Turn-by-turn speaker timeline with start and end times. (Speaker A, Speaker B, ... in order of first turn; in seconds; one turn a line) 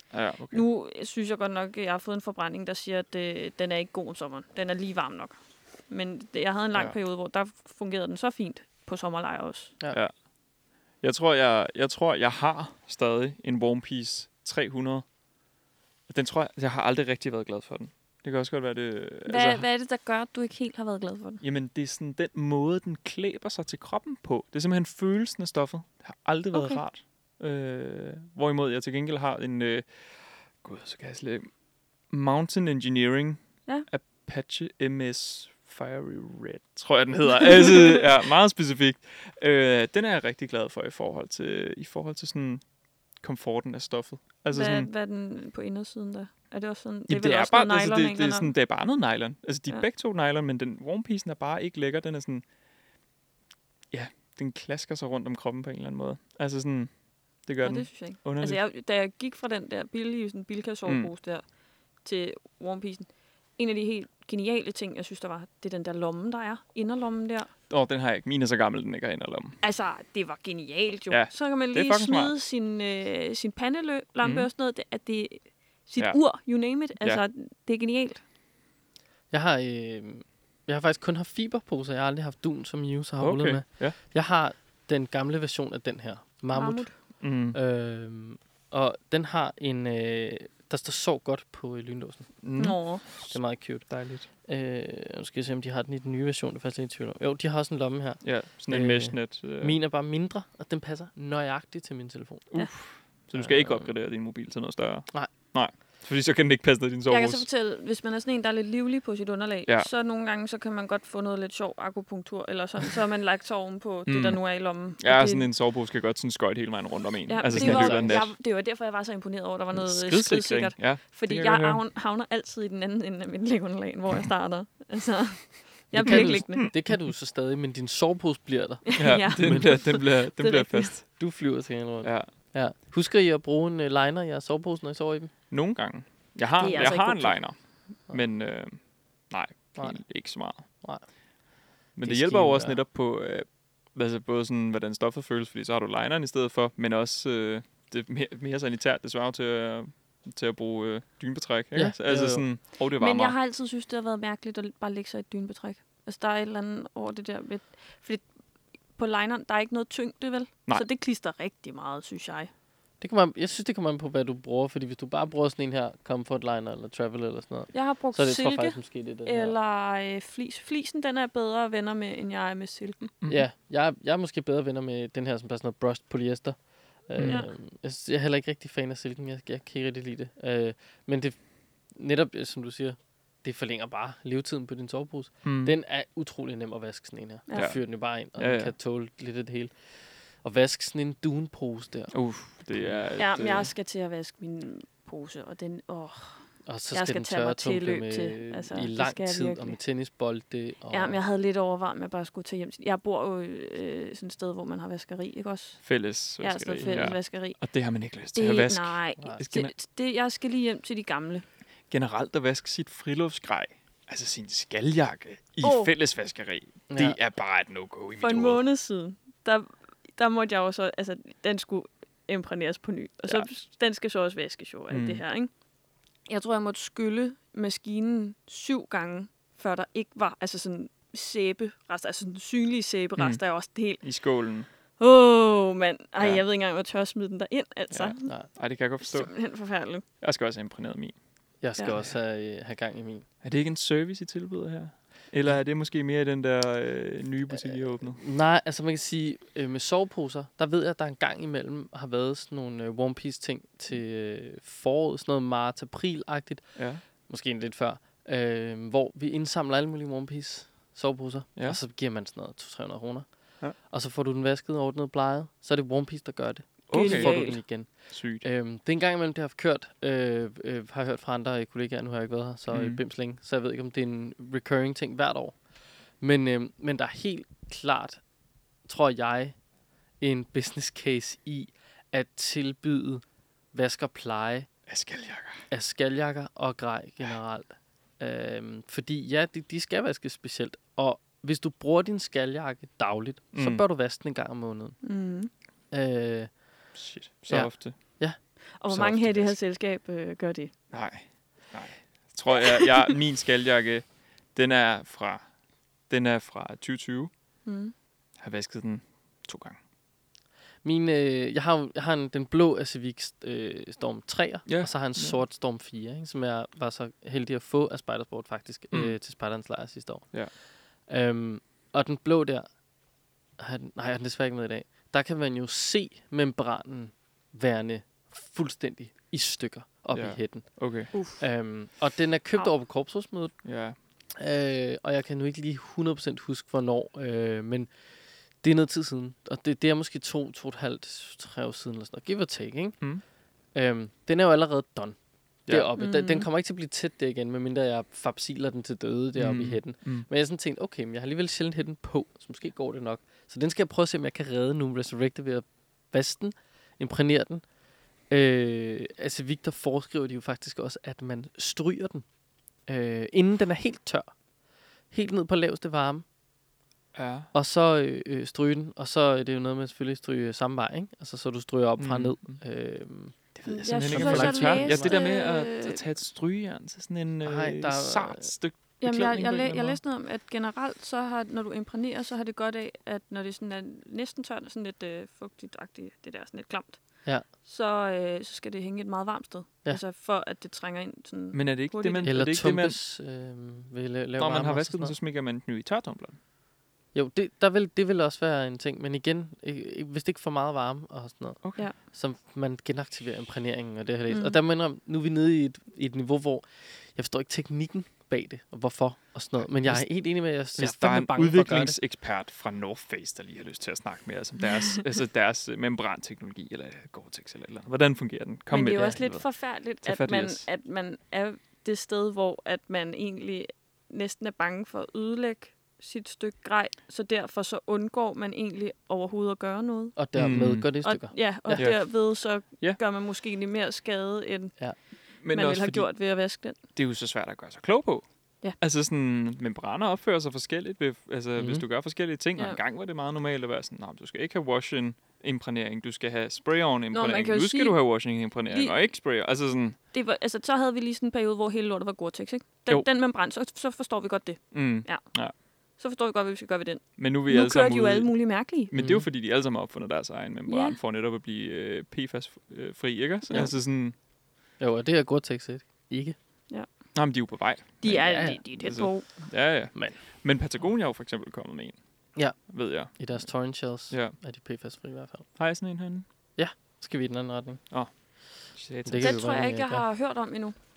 Speaker A: 0.1-0.6
Speaker B: 0.5-9.7
Speaker A: 11.0-15.1
Speaker A: 16.1-19.6
Speaker B: 19.3-21.4
Speaker A: 21.4-31.5
Speaker B: 26.5-26.8
Speaker A: 32.1-42.6
Speaker A: 43.2-44.9
Speaker B: 44.5-48.5
Speaker A: 47.1-52.4
Speaker A: 53.9-56.9
Speaker A: 57.4-58.6
Speaker B: 57.6-61.5
Speaker A: 60.9-61.1
Speaker B: 62.0-67.5
Speaker A: 67.7-69.6
Speaker B: 69.6-78.2
Speaker A: 71.1-72.3
Speaker A: 74.2-74.5
Speaker A: 76.0-76.4
Speaker A: 77.0-77.2
Speaker C: 79.3-92.4
Speaker A: 83.2-84.0
Speaker B: 86.5-87.0
Speaker A: 87.2-87.6
Speaker A: 92.4-94.3
Speaker B: 92.6-93.0
Speaker C: 93.3-102.5
Speaker A: 98.2-99.8
Speaker A: 102.5-107.5
Speaker C: 103.3-104.0
Speaker B: 107.1-115.5
Speaker A: 114.1-114.4
Speaker A: 115.0-118.3
Speaker B: 117.3-126.7
Speaker C: 117.5-118.2
Speaker A: 119.8-121.8
Speaker C: 125.9-129.8
Speaker A: 126.0-126.9
Speaker B: 128.8-131.0
Speaker A: 129.0-131.2
Speaker C: 131.1-135.3
Speaker A: 132.0-132.3
Speaker A: 135.5-140.7
Speaker B: 136.6-137.4
Speaker C: 136.7-137.0
Speaker A: 142.0-153.3
Speaker C: 142.0-142.8
Speaker C: 151.7-152.5
Speaker B: 153.0-158.2
Speaker B: 159.0-162.5
Speaker C: 163.0-169.6
Speaker B: 167.7-173.1
Speaker C: 173.3-181.4
Speaker A: 177.2-177.4
Speaker B: 177.2-177.5
Speaker C: 181.9-192.2
Speaker A: 185.4-185.8
Speaker B: 187.5-187.7
Speaker A: 187.6-188.7
Speaker A: 192.1-193.7
Speaker C: 192.7-193.0
Speaker B: 193.2-199.8
Speaker C: 196.7-201.2
Speaker B: 200.9-205.8
Speaker A: 205.8-209.7
Speaker B: 206.4-207.6
Speaker C: 206.8-207.2
Speaker B: 208.3-211.4
Speaker A: 211.9-218.6
Speaker B: 215.6-215.9
Speaker C: 216.9-217.2
Speaker B: 218.2-225.5
Speaker A: 224.9-225.2
Speaker B: 226.3-234.0
Speaker A: 234.0-234.7
Speaker B: 235.0-238.3
Speaker A: 237.9-239.4
Speaker B: 239.0-240.0
Speaker A: 240.2-241.2
Speaker C: 241.6-243.3
Speaker A: 243.4-248.2
Speaker C: 247.6-275.6
Speaker A: 256.8-257.0
Speaker A: 266.9-268.4
Speaker B: 266.9-267.6
Speaker A: 272.7-273.0
Speaker C: 276.2-278.2
Speaker C: 278.9-279.6
Speaker C: 280.2-284.7
Speaker A: 284.9-285.6
Speaker C: 285.7-295.0
Speaker A: 293.5-293.8
Speaker B: 295.0-295.5
Speaker C: 295.9-296.5
Speaker A: 296.9-298.0
Speaker C: 297.5-298.4
Speaker B: 298.8-300.7
Speaker A: 298.9-299.5
Speaker A: 300.9-305.4
Speaker A: 306.1-307.3
Speaker B: 307.6-307.9
Speaker A: 308.4-309.8
Speaker C: 310.8-320.5
Speaker A: 314.7-315.4
Speaker A: 318.9-319.2
Speaker C: 321.1-322.7
Speaker C: 323.6-333.5
Speaker A: 330.1-331.1
Speaker B: 331.1-331.4
Speaker A: 333.6-334.0
Speaker C: 334.3-337.9
Speaker C: 338.6-343.0
Speaker C: 343.7-345.2
Speaker C: 345.7-357.6
Speaker B: 346.0-346.5
Speaker A: 349.4-350.3
Speaker C: 358.3-362.2
Speaker C: 362.9-364.3
Speaker C: 365.1-366.2
Speaker A: 367.1-367.5
Speaker C: 367.5-375.2
Speaker A: 372.0-372.6
Speaker A: 373.6-380.0
Speaker B: 373.8-376.0
Speaker C: 377.4-378.5
Speaker B: 379.0-392.3
Speaker A: 391.5-393.0
Speaker C: 392.2-395.1
Speaker A: 394.4-396.4
Speaker C: 397.1-412.0
Speaker A: 401.6-401.9
Speaker B: 404.3-404.6
Speaker A: 409.8-420.7
Speaker B: 418.7-430.2
Speaker C: 430.2-431.9
Speaker A: 430.4-431.0
Speaker B: 431.0-434.8
Speaker A: 431.7-433.0
Speaker B: 435.4-436.8
Speaker A: 435.4-436.1
Speaker A: 436.8-450.0
Speaker C: 441.6-441.9
Speaker B: 447.1-448.0
Speaker B: 448.7-449.0
Speaker B: 450.1-455.3
Speaker A: 454.7-455.5
Speaker B: 456.0-458.9
Speaker A: 457.2-464.1
Speaker C: 458.9-459.3
Speaker B: 460.7-461.0
Speaker C: 464.8-466.4
Speaker A: 467.1-472.0
Speaker B: 468.0-469.3
Speaker C: 468.1-468.6
Speaker C: 472.4-475.4
Speaker A: 472.7-473.3
Speaker A: 474.1-474.4
Speaker A: 475.6-476.2
Speaker C: 476.6-477.8
Speaker A: 478.7-479.4
Speaker C: 479.1-480.0
Speaker B: 479.2-480.8